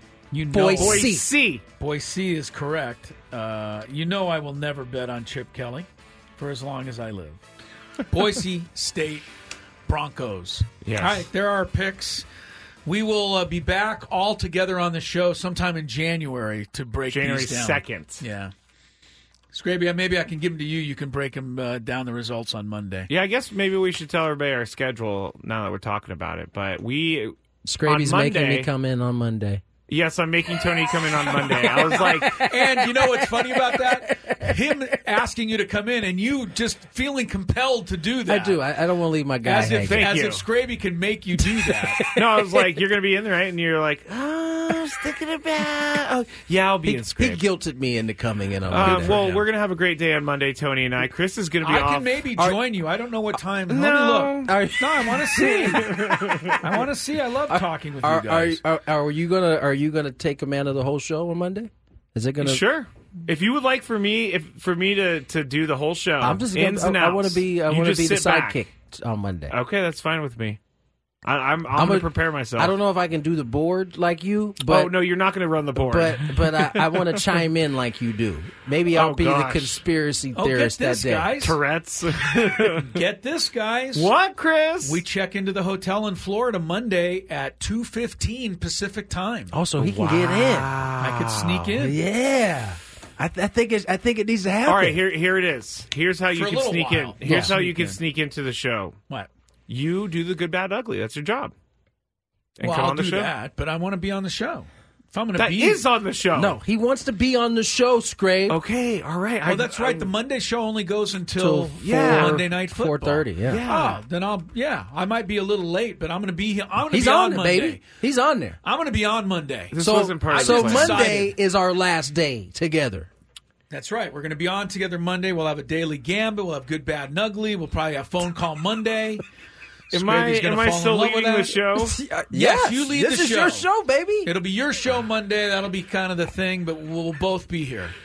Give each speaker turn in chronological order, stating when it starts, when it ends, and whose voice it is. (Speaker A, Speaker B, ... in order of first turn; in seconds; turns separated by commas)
Speaker A: 0.3-1.2, Speaker B: 0.5-1.3, Speaker C: 0.7-1.6, Speaker A: 1.8-7.4, Speaker A: 8.1-9.2, Speaker A: 9.9-12.2, Speaker C: 10.8-11.2, Speaker A: 12.8-18.5, Speaker C: 17.1-18.2, Speaker A: 19.5-23.1, Speaker C: 23.1-28.7, Speaker B: 27.6-29.6, Speaker C: 29.9-32.4, Speaker B: 31.4-34.6, Speaker A: 31.6-38.6, Speaker B: 38.3-40.1, Speaker A: 39.4-42.0, Speaker C: 39.8-40.4, Speaker B: 41.4-42.7, Speaker C: 42.1-47.4, Speaker B: 46.8-49.4, Speaker C: 48.7-52.1, Speaker A: 48.8-49.4, Speaker A: 51.6-55.9, Speaker C: 53.7-54.5, Speaker B: 54.5-56.6, Speaker C: 55.4-56.6, Speaker A: 56.6-58.6, Speaker B: 57.5-62.6, Speaker C: 62.4-68.6, Speaker B: 66.2-69.5, Speaker C: 69.5-70.6, Speaker C: 71.2-72.8, Speaker B: 71.7-75.0, Speaker C: 74.6-77.2, Speaker B: 75.8-81.4, Speaker C: 78.9-79.8, Speaker A: 80.3-81.6, Speaker C: 81.4-83.0, Speaker A: 82.3-84.1, Speaker C: 83.9-85.0, Speaker A: 84.8-89.5, Speaker B: 89.5-90.7, Speaker C: 89.8-91.8, Speaker A: 91.0-92.0, Speaker B: 91.8-95.0, Speaker C: 94.6-99.0, Speaker A: 96.3-98.0, Speaker B: 97.2-97.6, Speaker C: 99.7-101.5, Speaker C: 102.6-103.3, Speaker A: 102.6-105.8, Speaker C: 105.4-106.6, Speaker B: 106.3-108.6, Speaker C: 108.5-110.1, Speaker A: 109.4-117.8, Speaker B: 111.3-113.6, Speaker C: 111.8-112.4, Speaker C: 113.5-114.0, Speaker B: 116.9-118.6, Speaker A: 118.6-119.7, Speaker C: 119.7-121.0, Speaker B: 119.8-123.1, Speaker A: 120.3-121.3, Speaker A: 123.7-129.2, Speaker A: 129.9-131.6, Speaker C: 129.9-132.0, Speaker B: 131.7-134.3, Speaker A: 132.3-133.7, Speaker A: 134.2-137.9